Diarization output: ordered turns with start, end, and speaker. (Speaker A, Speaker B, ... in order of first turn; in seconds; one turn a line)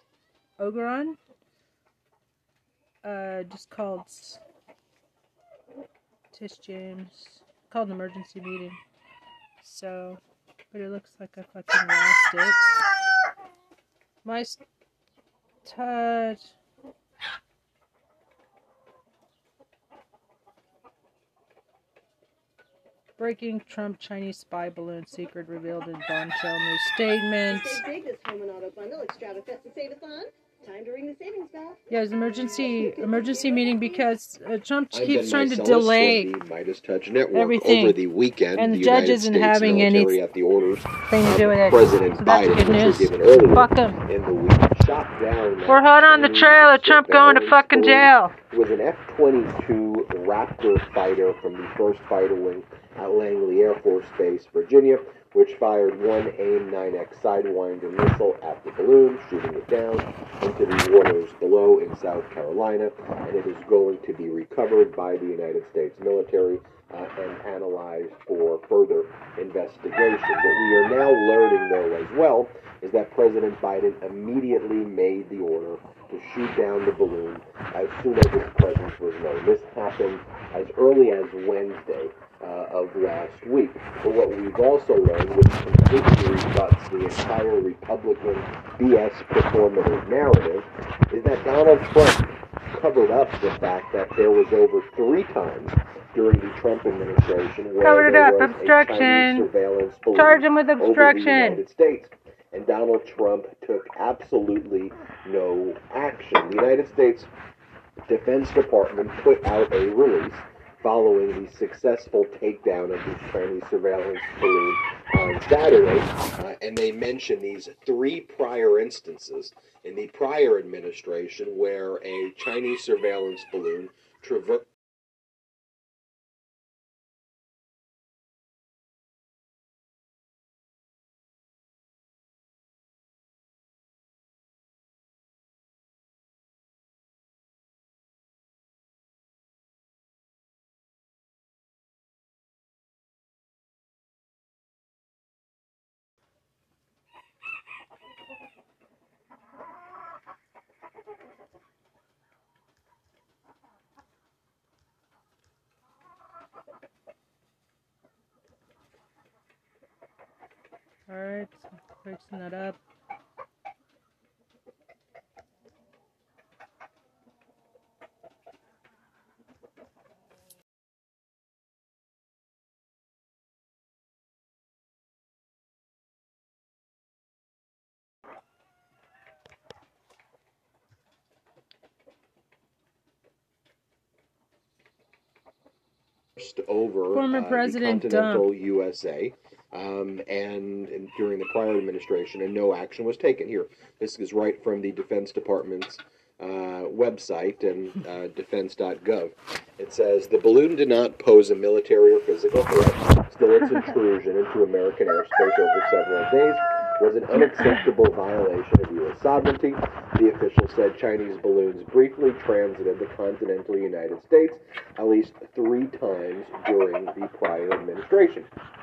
Speaker A: 0.6-1.2
Speaker A: 3.0-4.4
Speaker A: 6.3-8.8
Speaker A: 9.6-12.8
Speaker A: 14.2-14.6
Speaker A: 15.6-16.5
Speaker A: 23.2-27.8
Speaker B: 27.5-31.9
Speaker A: 31.9-36.3
Speaker B: 32.4-34.0
Speaker C: 34.9-107.3
Speaker A: 37.3-38.0
Speaker A: 38.5-40.2
Speaker A: 41.1-44.0
Speaker A: 45.7-48.3
Speaker A: 97.8-99.5
Speaker A: 100.1-101.6
Speaker C: 108.0-124.7
Speaker A: 161.1-162.8
Speaker C: 186.3-218.5
Speaker A: 187.1-188.5